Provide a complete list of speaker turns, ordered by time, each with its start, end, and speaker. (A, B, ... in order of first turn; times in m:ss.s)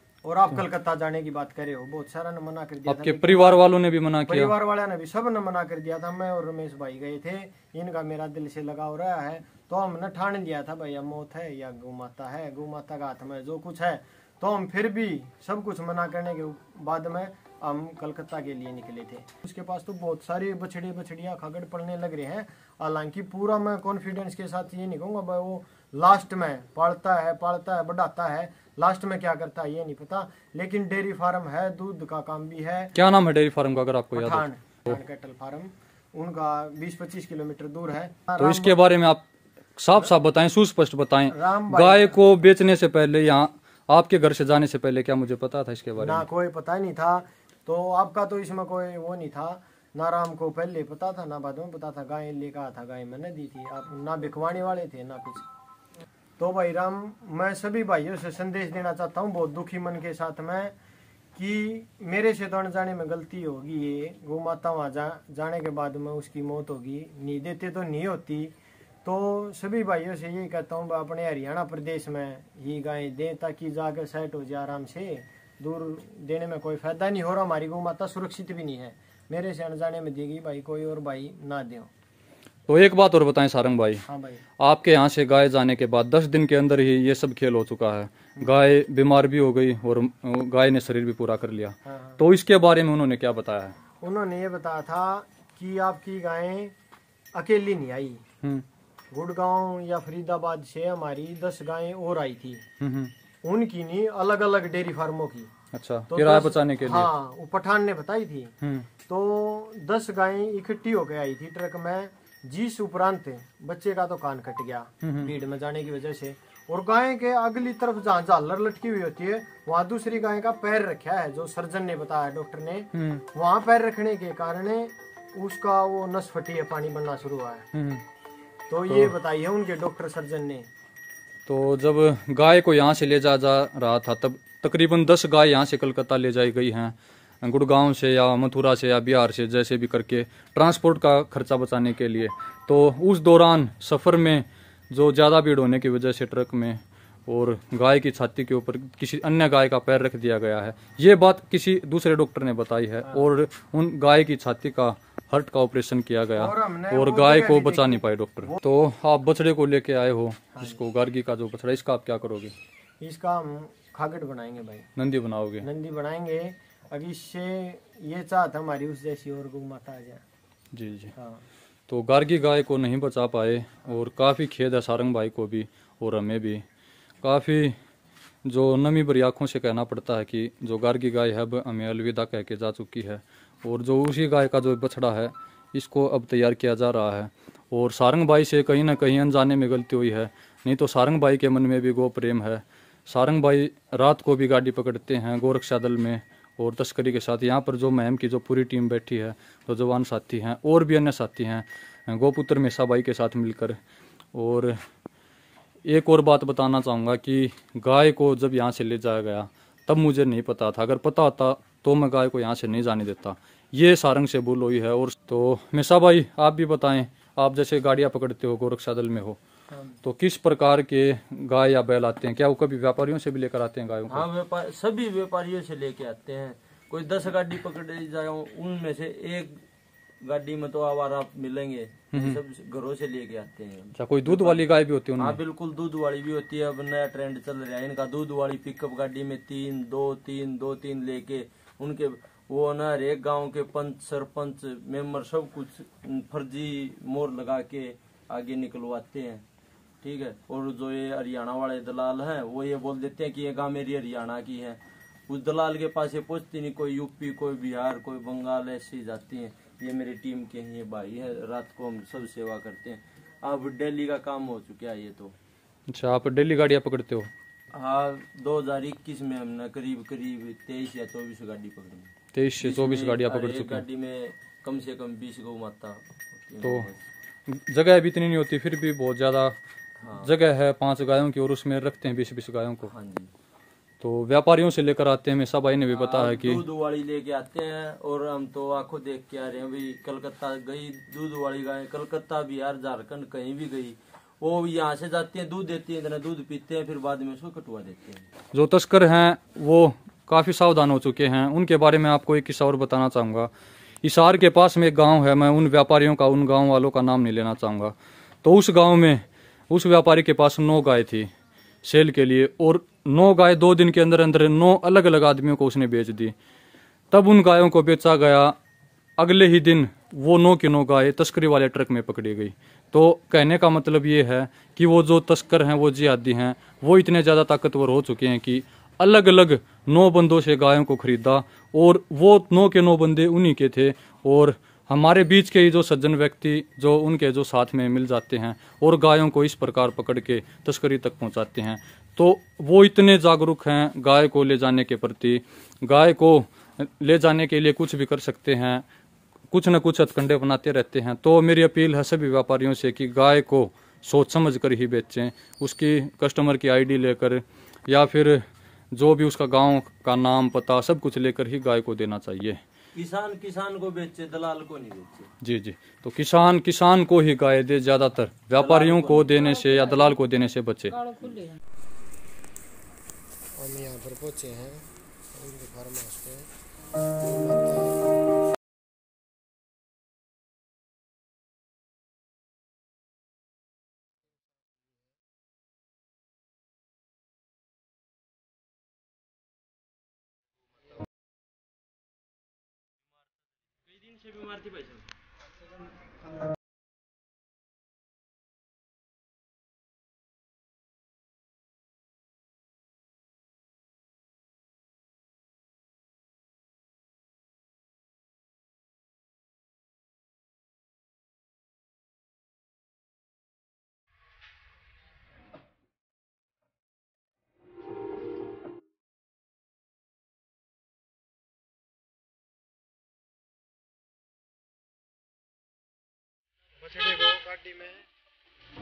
0:00.2-0:03.7 A
0:02.9-0:04.5 B
0:04.3-0:32.9 A
0:32.9-0:34.9 B
0:34.1-0:38.8 A
0:38.4-0:39.2 B
0:39.8-0:46.2 B
0:41.3-0:42.2 A
0:46.0-0:55.4 A
0:56.4-1:00.7 A
1:01.3-1:08.5 A
1:09.0-1:21.9 A
1:22.7-1:24.0 B
1:24.0-1:24.4 A
1:24.6-1:33.7 B
1:31.8-1:32.2 A
1:34.0-1:36.7 A
1:37.3-1:38.2 A
1:39.1-1:42.6 A
1:42.8-1:43.1 B
1:43.4-1:45.5 A
1:45.7-1:47.1 B
1:46.1-1:48.5 A
1:48.6-1:48.9 B
1:49.1-2:07.7 A
1:55.0-1:55.3 B
2:02.9-2:03.2 B
2:07.7-2:08.0 B
2:08.7-2:10.7 A
2:11.5-2:42.5 B
2:33.0-2:33.3 A
2:36.4-2:38.6 A
2:40.5-2:40.8 A
2:43.0-2:44.9 A
2:45.0-2:45.7 B
2:45.6-2:50.2 A
2:50.7-2:51.1 B
2:51.2-2:51.4 A
2:51.9-2:56.6 B
2:57.2-2:57.8 B
2:58.4-3:23.8 B
3:24.3-3:24.8 B
3:25.8-3:39.4 B
3:40.0-3:44.3 B
3:44.1-3:49.6 C
3:50.2-3:54.6 C
3:54.0-3:55.4 B
3:55.2-4:09.4 C
4:10.0-4:25.3 C
4:25.9-4:27.3 B
4:27.7-4:37.0 C
4:32.3-4:33.8 B
4:37.5-4:39.6 B
4:40.0-4:40.3 C
4:40.2-4:42.9 B
4:42.9-4:43.3 C
4:44.0-4:46.6 B
4:45.9-4:58.3 C
4:58.5-5:03.5 B
5:04.0-5:11.3 B
5:11.8-5:16.3 B
5:17.1-5:18.5 B
5:19.2-5:48.8 B
5:49.5-6:02.6 B
6:02.9-6:05.3 C
6:05.4-6:11.1 B
6:08.6-6:09.9 C
6:13.6-6:16.5 A
6:17.2-6:18.1 A
6:33.8-6:35.1 C
7:06.8-7:08.1 A